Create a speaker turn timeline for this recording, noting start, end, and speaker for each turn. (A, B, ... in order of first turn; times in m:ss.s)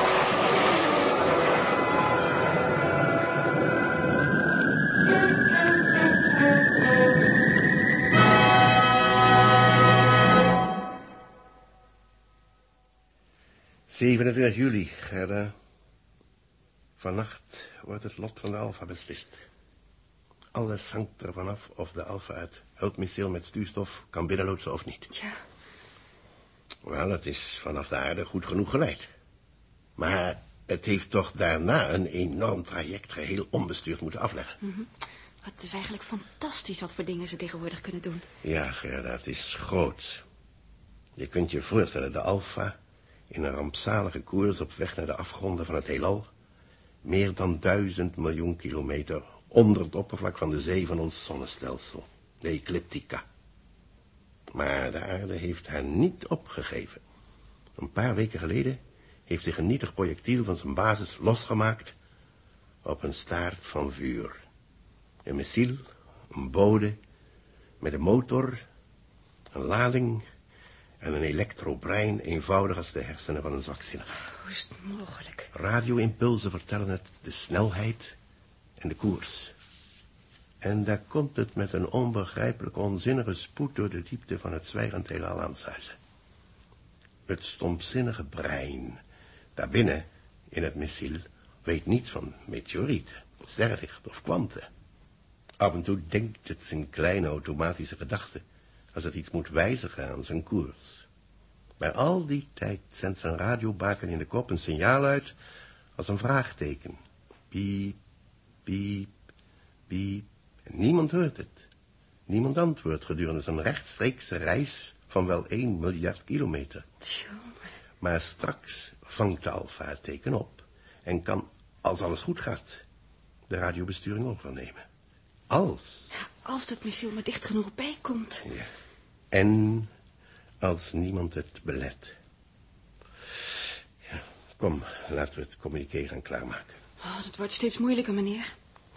0:13.9-0:15.5 A
0:17.0-0:19.4 A
0:20.5-0:25.1 A
0:25.1-0:25.4 B
0:26.8-0:29.1 A
0:30.0-0:34.6 A
0:34.6-0:34.9 B
0:35.4-0:38.3 B
0:38.4-0:40.2 A
0:41.2-0:42.7 A
0:43.3-0:46.3 A
0:47.0-0:53.2 A
0:54.5-0:57.0 A
0:57.8-1:02.0 A
1:02.8-1:04.4 A
1:05.2-1:07.0 A
1:07.8-1:08.6 A
1:09.5-1:10.2 A
1:11.0-1:14.1 A
1:14.4-1:15.5 B
1:15.5-1:18.2 A
1:18.8-1:19.5 A
1:20.6-1:26.0 A
1:27.3-1:29.0 A
1:29.6-1:34.7 A
1:35.6-1:38.4 A
1:38.9-1:41.0 A
1:41.8-1:45.3 A
1:46.0-1:47.0 A
1:47.5-1:48.0 A
1:48.7-1:49.1 A
1:49.9-1:51.6 A
1:52.3-1:56.8 A
1:57.0-1:57.5 B
1:58.0-2:02.8 A
2:03.5-2:04.8 A
2:05.5-2:06.1 A
2:06.1-2:08.4 B
2:09.3-2:09.9 A
2:10.6-2:12.1 A
2:14.1-2:16.8 A
2:17.0-2:18.5 B